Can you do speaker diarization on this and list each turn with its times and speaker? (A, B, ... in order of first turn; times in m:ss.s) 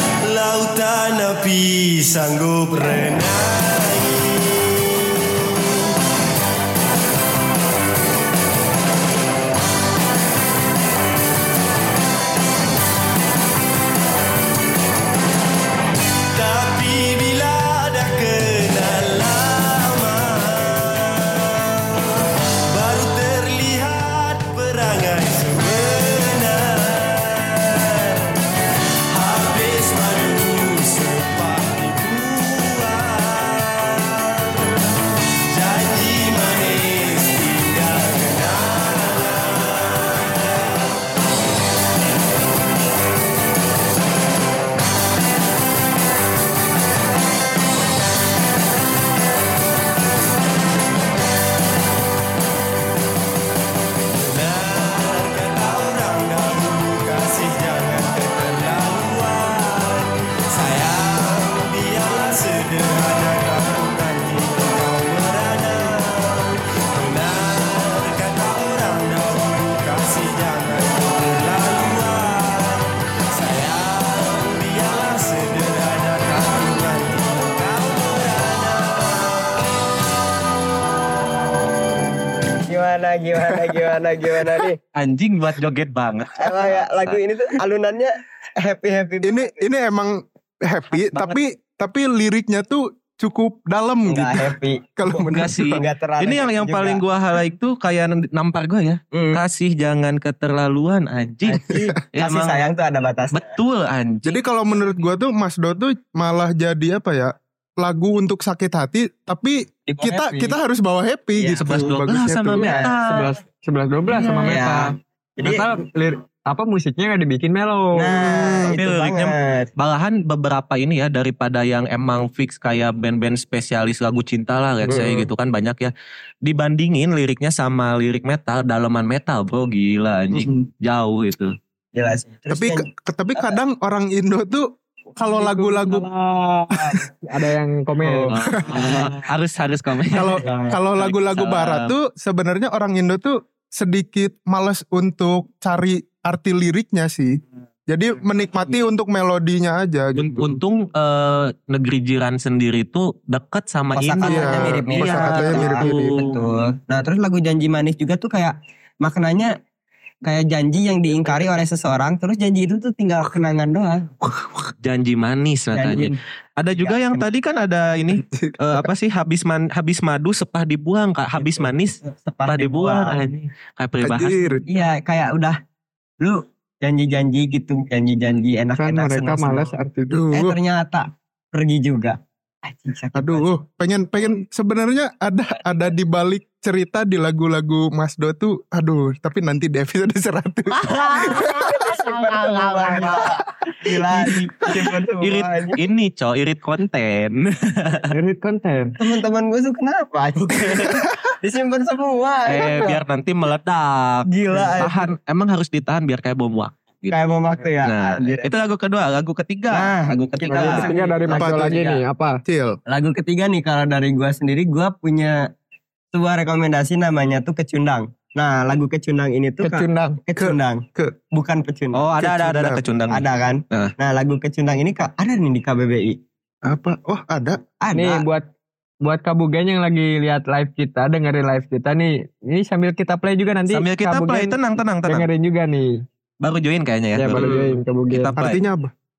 0:00.2-0:05.9 A
0:16.3-0:28.4 A
0:29.1-0:34.6 A
0:35.5-0:40.9 A
0:54.1-1:20.0 A
1:22.6-1:24.8 B
1:24.9-1:27.2 C
1:26.4-1:29.6 B
1:29.2-1:35.8 D
1:31.0-1:31.4 C
1:34.1-1:37.0 B
1:35.3-1:42.7 C
1:39.1-1:39.4 B
1:41.5-1:43.6 B
1:43.3-1:44.3 C
1:44.2-1:52.7 D
1:49.9-1:50.6 B
1:51.4-1:51.7 B
1:51.6-1:53.3 C
1:52.6-1:52.9 B
1:52.6-1:58.1 E
1:54.1-1:54.6 C
1:54.4-1:55.7 B
1:57.9-1:59.7 B
1:58.2-1:58.8 D
1:58.7-2:05.9 C
2:04.8-2:05.3 B
2:06.4-2:11.5 C
2:11.9-2:13.6 B
2:12.5-2:16.1 D
2:15.2-2:16.7 E
2:16.7-2:17.0 B
2:17.2-2:18.3 E
2:18.0-2:19.1 D
2:18.3-2:20.4 C
2:18.7-2:19.0 B
2:20.1-2:30.6 D
2:20.4-2:20.8 B
2:21.0-2:21.9 C
2:30.2-2:36.3 C
2:33.9-2:39.6 B
2:34.2-2:36.2 D
2:40.2-2:44.1 B
2:44.3-2:54.4 C
2:45.7-2:46.2 B
2:46.7-2:47.2 B
2:48.2-2:48.8 D
2:51.4-2:53.2 B
2:54.0-2:54.6 D
2:54.7-2:55.6 B
2:56.2-2:59.7 B
2:58.8-3:00.2 E
3:00.1-3:00.6 D
3:00.3-3:03.5 B
3:03.1-3:11.6 D
3:10.7-3:13.4 C
3:11.0-3:15.8 B
3:14.2-3:18.1 C
3:18.1-3:19.0 E
3:19.0-3:23.0 B
3:20.5-3:21.0 C
3:22.4-3:24.3 C
3:24.3-3:25.1 B
3:24.8-3:27.2 C
3:27.1-3:28.5 B
3:27.8-3:30.9 C
3:29.7-3:32.0 B
3:30.5-3:32.4 E
3:31.3-3:31.8 D
3:32.4-3:32.8 D
3:32.9-3:35.5 B
3:36.1-3:42.0 B
3:39.6-3:40.2 E
3:40.4-3:41.1 D
3:41.9-3:43.9 C
3:42.2-3:42.8 D
3:43.1-3:46.2 B
3:46.6-3:47.6 D
3:47.8-3:48.2 B
3:47.9-3:48.4 E
3:49.0-3:56.0 E
3:53.7-3:55.3 C
3:56.4-3:58.6 C
3:57.2-3:58.3 E
3:57.4-3:57.7 B
3:58.4-3:58.9 D